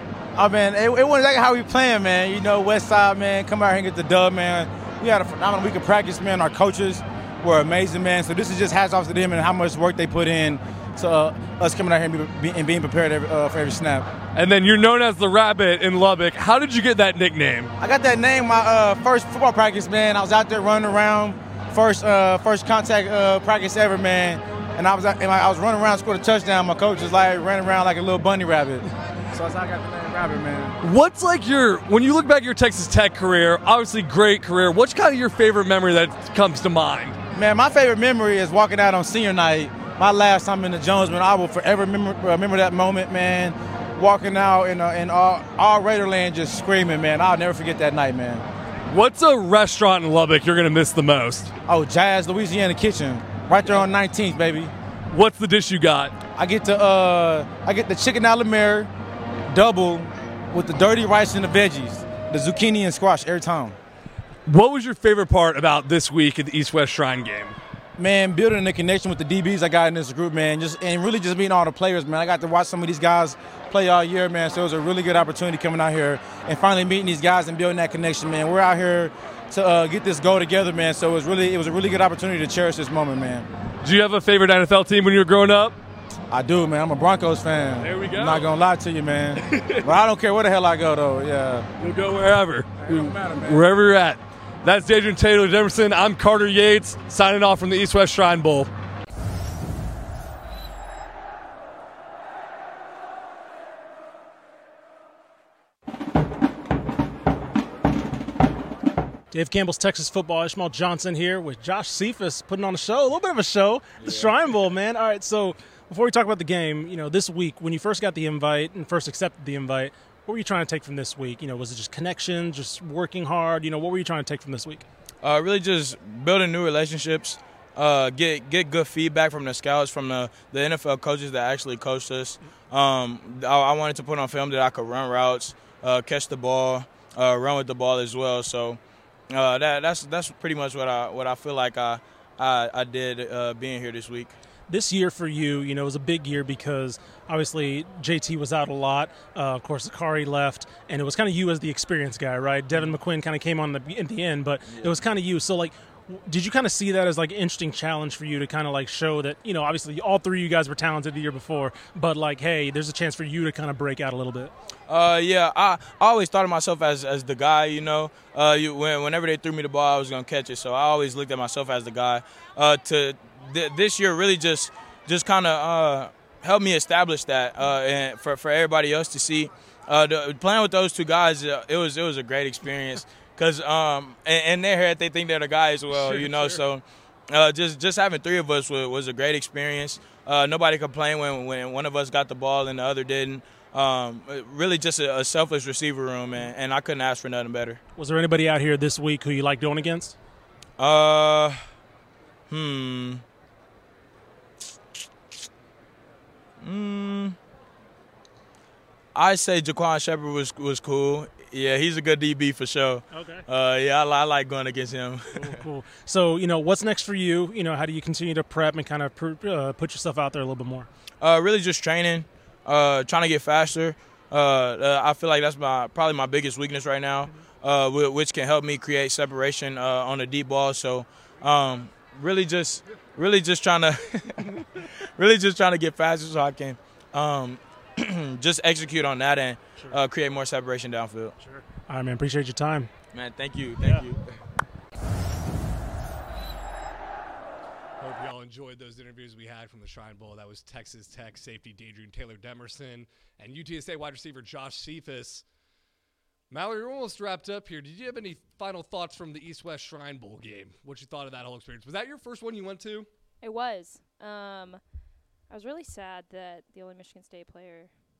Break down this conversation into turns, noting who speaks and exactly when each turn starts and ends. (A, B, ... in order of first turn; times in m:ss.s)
0:00.4-0:14.1 A
0:14.3-0:17.7 B
0:17.8-0:30.8 A
0:30.8-0:37.2 B
0:37.3-0:48.4 A
0:48.9-0:51.5 B
0:51.7-0:54.7 A
0:55.1-0:56.2 B
0:56.3-0:58.9 A
0:59.5-1:03.7 A
1:04.4-1:07.6 B
1:08.0-1:23.5 A
1:23.8-1:25.8 B
1:26.3-1:31.7 A
1:27.8-1:28.5 B
1:29.3-1:30.0 B
1:31.8-1:38.7 B
1:32.8-1:33.6 A
1:49.3-2:04.8 C
2:05.2-2:24.3 D
2:24.7-2:44.5 C
2:44.9-3:17.8 D
3:05.9-3:06.6 C
3:18.0-3:20.2 C
3:20.8-3:21.6 D
3:22.5-3:23.2 D
3:26.6-3:27.4 D
3:29.1-3:35.6 D
3:33.1-3:33.4 C
3:35.4-3:40.9 C
3:41.2-3:54.6 D
3:55.2-4:01.3 D
4:01.6-4:02.9 C
4:03.1-4:04.2 D
4:08.0-4:15.4 B
4:16.5-4:23.1 B
4:23.4-4:24.8 E
4:25.5-4:27.9 E